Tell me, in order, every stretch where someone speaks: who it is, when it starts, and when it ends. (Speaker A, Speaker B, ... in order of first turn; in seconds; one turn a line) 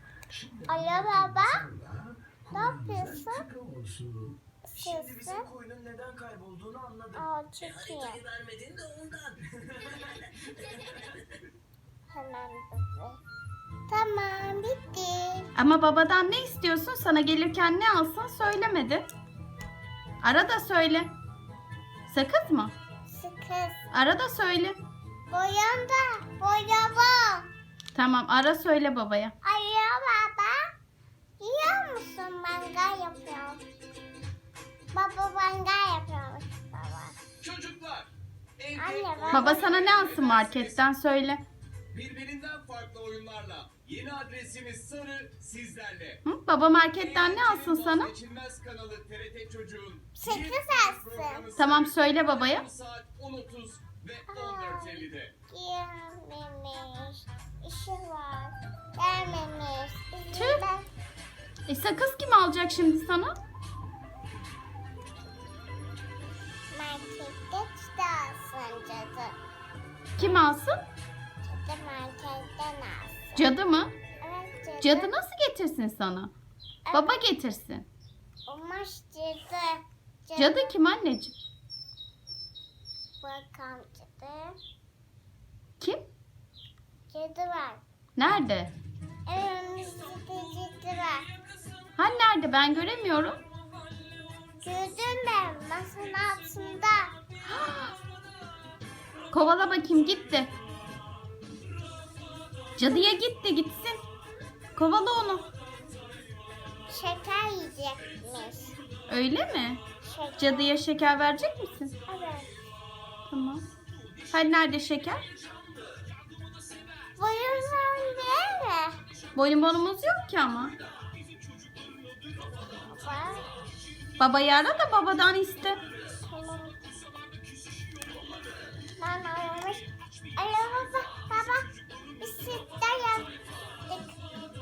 Speaker A: 0.3-4.4
Speaker B: 0.7-1.6
Speaker B: 2.5-3.5
Speaker B: 4.7-5.5
Speaker C: 4.8-10.0
Speaker B: 7.2-8.2
Speaker B: 12.1-13.2
Speaker B: 13.9-15.5
Speaker D: 15.6-19.1
Speaker D: 20.2-21.1
Speaker D: 22.1-22.7
Speaker B: 23.1-23.9
Speaker D: 23.9-24.8
Speaker B: 25.3-27.5
Speaker D: 27.9-29.3
Speaker B: 29.4-30.6
Speaker B: 31.4-33.6
Speaker B: 34.9-37.2
Speaker E: 37.4-40.8
Speaker B: 38.8-39.8
Speaker D: 39.3-41.4
Speaker E: 41.9-46.2
Speaker D: 46.2-48.1
Speaker E: 47.0-55.3
Speaker B: 50.1-51.5
Speaker D: 51.6-52.7
Speaker B: 54.3-60.9
Speaker D: 60.3-60.6
Speaker D: 61.7-63.4
Speaker B: 66.7-69.4
Speaker D: 70.2-70.8
Speaker B: 71.4-73.5
Speaker D: 73.3-73.9
Speaker B: 74.2-75.1
Speaker D: 74.8-76.3
Speaker B: 76.8-77.3
Speaker D: 76.9-77.9
Speaker B: 78.5-80.8
Speaker D: 80.4-81.3
Speaker B: 83.2-84.5
Speaker D: 85.8-86.0
Speaker B: 87.1-87.8
Speaker D: 88.2-88.7
Speaker B: 89.3-91.3
Speaker D: 92.0-93.4
Speaker B: 94.6-97.3
Speaker D: 97.4-98.0
Speaker D: 99.3-100.5
Speaker D: 102.8-104.0
Speaker D: 104.8-105.5
Speaker B: 106.9-108.8
Speaker D: 109.1-109.8
Speaker B: 110.0-110.8
Speaker D: 110.4-111.9
Speaker B: 112.1-112.5
Speaker D: 113.3-113.7
Speaker D: 114.3-115.3
Speaker E: 115.6-116.0
Speaker B: 117.2-119.0
Speaker D: 119.3-120.8
Speaker E: 121.1-122.5
Speaker B: 122.6-123.5
Speaker D: 124.2-125.8
Speaker B: 126.0-126.8
Speaker E: 127.6-128.2
Speaker B: 129.0-134.2